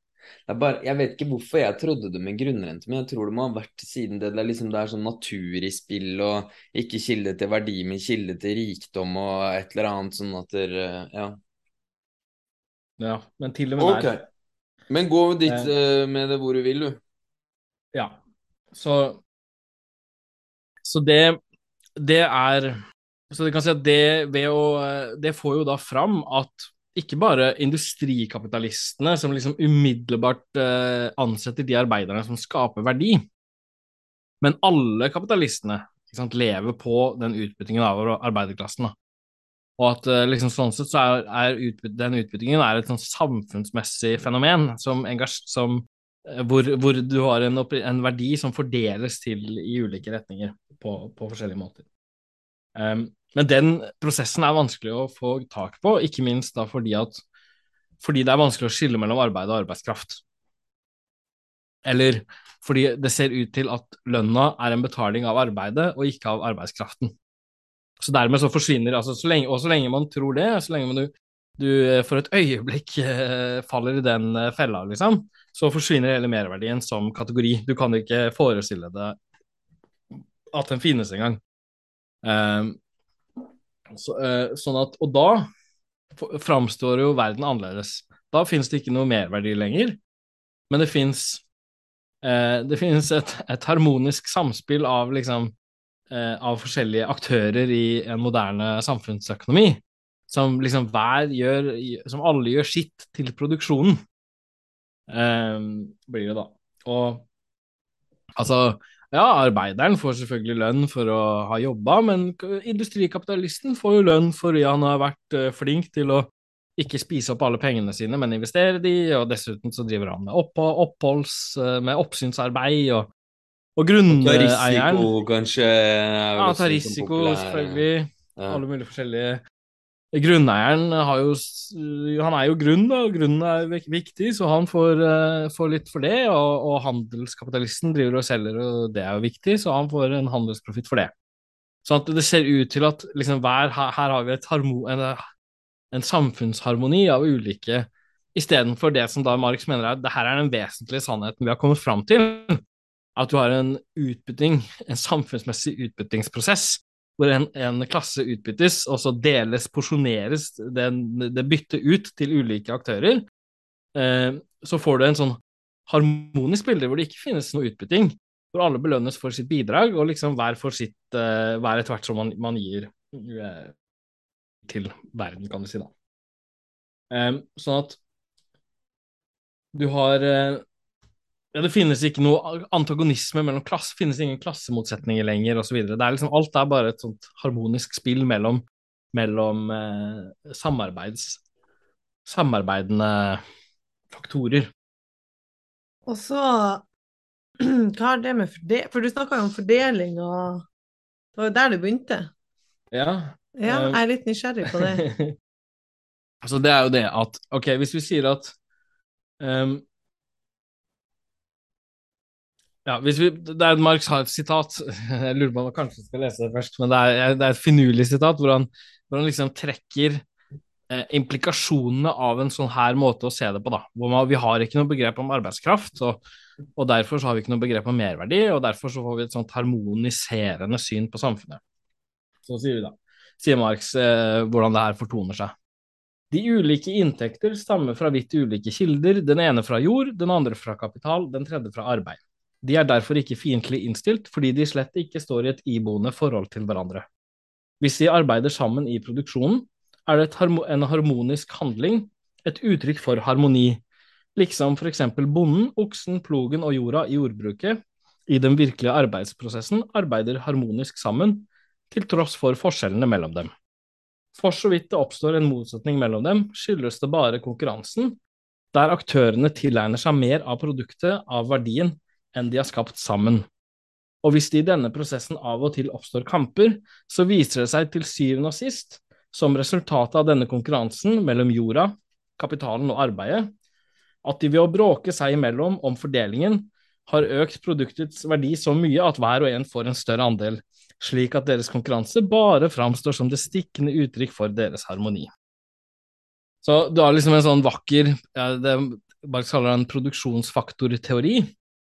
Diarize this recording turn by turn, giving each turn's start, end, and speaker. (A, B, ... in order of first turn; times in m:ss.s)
0:00.5-0:11.4 A
0:13.0-0:14.1 B
0:13.8-0:14.2 A
0:14.9-0:17.0 A
0:18.7-0:19.2 B
0:20.8-0:21.4 B
0:22.0-0:33.2 B
0:34.4-0:38.9 B
0:39.8-0:51.8 B
0:52.8-0:57.2 B
0:58.0-1:00.2 B
1:01.8-1:07.1 B
1:08.0-1:19.2 B
1:20.5-1:21.4 B
1:22.2-1:22.8 B
1:23.9-1:25.5 B
1:26.2-1:30.0 B
1:30.7-1:31.4 B
1:32.2-1:35.5 B
1:36.1-1:44.0 B
1:45.1-1:47.2 B
1:48.4-2:03.1 B
2:03.8-2:05.1 B
2:04.1-2:07.8 A
2:06.4-2:09.4 B
2:08.4-2:08.6 A
2:10.1-2:21.1 B
2:21.8-2:25.3 B
2:25.9-2:32.6 B
2:33.2-2:43.2 B
2:43.9-2:53.7 B
2:54.6-2:55.9 B
2:57.1-2:58.0 B
2:59.7-3:00.6 B
3:01.5-3:11.4 B
3:12.2-3:13.4 B
3:14.1-3:14.7 B
3:16.1-3:16.8 C
3:17.6-3:20.6 C
3:21.3-3:22.3 C
3:22.9-3:24.0 B
3:23.6-3:25.0 C
3:24.6-3:25.3 B
3:26.4-3:28.5 B
3:29.4-3:29.8 B
3:32.8-3:40.2 B
3:40.9-3:46.2 B
3:46.8-3:51.6 B
3:52.4-3:55.5 B
3:56.3-4:07.0 B
4:07.8-4:13.8 B
4:14.4-4:23.5 B
4:24.3-4:28.2 B
4:28.7-4:33.4 B
4:34.2-4:43.5 B
4:44.2-4:55.3 B
4:56.6-5:01.5 B